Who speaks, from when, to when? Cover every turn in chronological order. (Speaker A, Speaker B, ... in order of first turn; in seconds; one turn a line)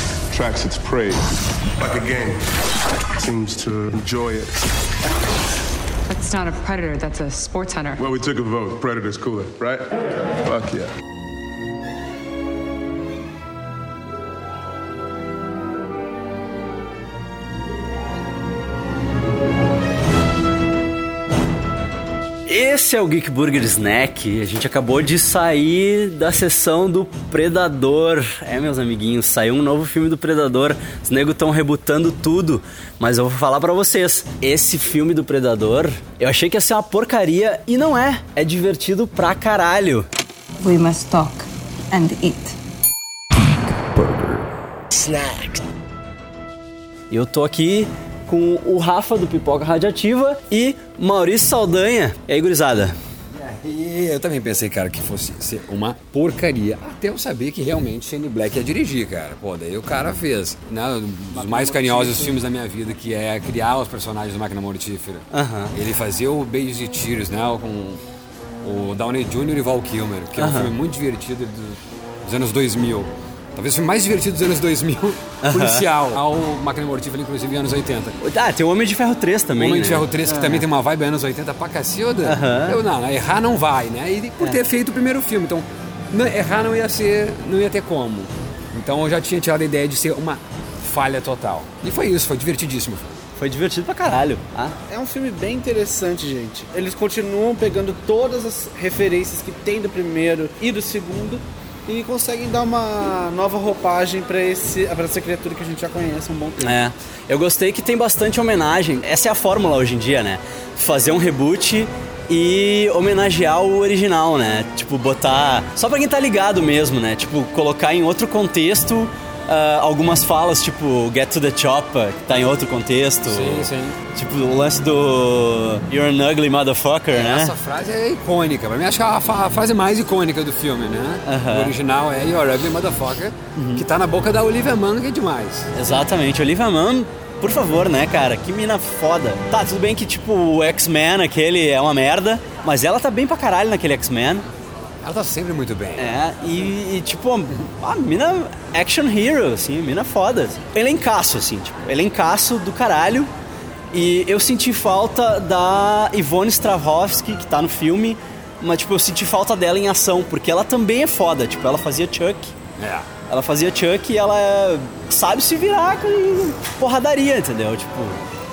Speaker A: 0.3-2.5
Speaker A: 3.1-4.6
Speaker B: 6.1-8.0
Speaker A: 8.0-10.9
Speaker C: 22.4-40.0
Speaker D: 40.6-42.5
Speaker D: 43.4-44.4
Speaker D: 44.9-45.6
Speaker C: 47.1-53.0
Speaker E: 53.3-68.0
Speaker F: 61.3-62.3
Speaker C: 65.3-65.7
Speaker E: 68.6-78.2
Speaker C: 70.4-70.7
Speaker C: 75.4-75.9
Speaker C: 78.2-80.5
Speaker E: 79.5-93.2
Speaker C: 82.2-82.8
Speaker C: 93.3-94.8
Speaker F: 94.9-106.8
Speaker C: 106.6-127.5
Speaker E: 123.3-124.0
Speaker E: 127.1-135.9
Speaker C: 131.2-131.7
Speaker C: 133.6-133.8
Speaker C: 135.7-144.4
Speaker E: 145.0-146.2
Speaker C: 145.9-153.3
Speaker C: 153.9-162.5
Speaker E: 162.8-163.1
Speaker C: 163.3-168.2